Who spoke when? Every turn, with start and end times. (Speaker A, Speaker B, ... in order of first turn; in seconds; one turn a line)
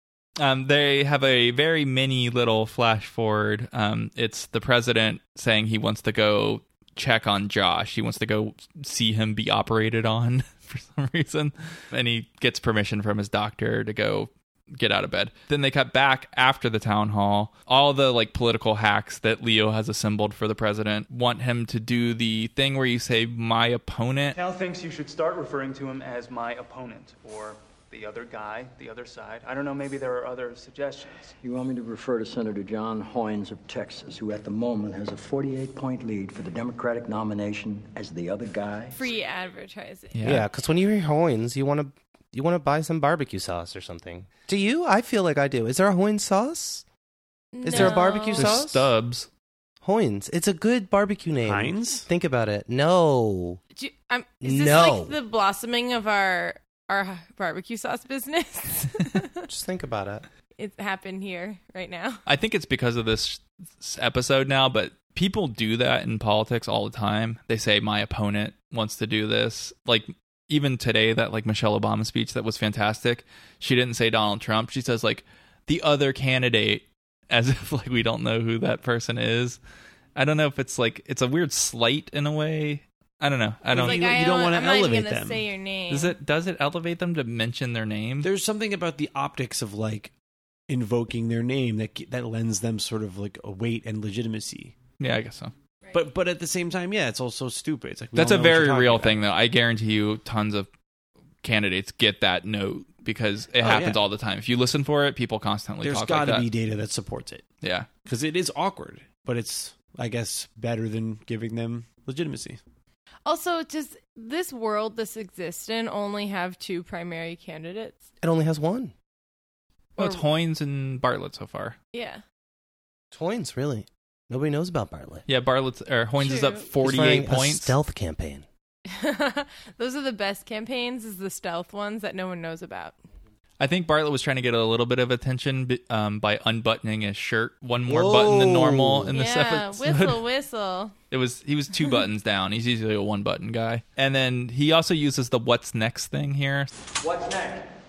Speaker A: 0.4-24.4
Speaker B: 24.3-31.3
Speaker C: 31.4-39.0
Speaker D: 38.9-40.2
Speaker A: 40.1-40.4
Speaker E: 40.2-46.8
Speaker D: 47.5-48.6
Speaker E: 47.6-48.9
Speaker A: 47.7-49.3
Speaker E: 49.8-53.6
Speaker F: 51.4-52.1
Speaker D: 53.8-59.5
Speaker E: 54.4-55.1
Speaker E: 59.5-60.2
Speaker D: 60.6-62.2
Speaker A: 62.2-79.6
Speaker A: 80.2-84.0
Speaker F: 83.7-85.4
Speaker D: 83.7-86.1
Speaker A: 85.9-88.3
Speaker F: 88.2-90.1
Speaker F: 90.7-94.8
Speaker A: 95.0-95.5
Speaker F: 95.9-99.2
Speaker A: 98.1-100.7
Speaker A: 101.4-106.5
Speaker F: 103.6-104.0
Speaker F: 105.8-107.4
Speaker A: 107.6-107.9
Speaker F: 108.0-112.6
Speaker D: 113.2-118.0
Speaker E: 118.2-118.9
Speaker A: 120.0-121.8
Speaker D: 120.0-120.2
Speaker D: 121.9-122.2
Speaker E: 123.1-125.2
Speaker A: 125.3-127.7
Speaker D: 126.2-126.7
Speaker E: 126.8-128.4
Speaker D: 128.9-132.9
Speaker A: 133.6-140.2
Speaker E: 137.9-139.1
Speaker D: 139.1-140.9
Speaker A: 141.1-146.7
Speaker C: 147.2-147.6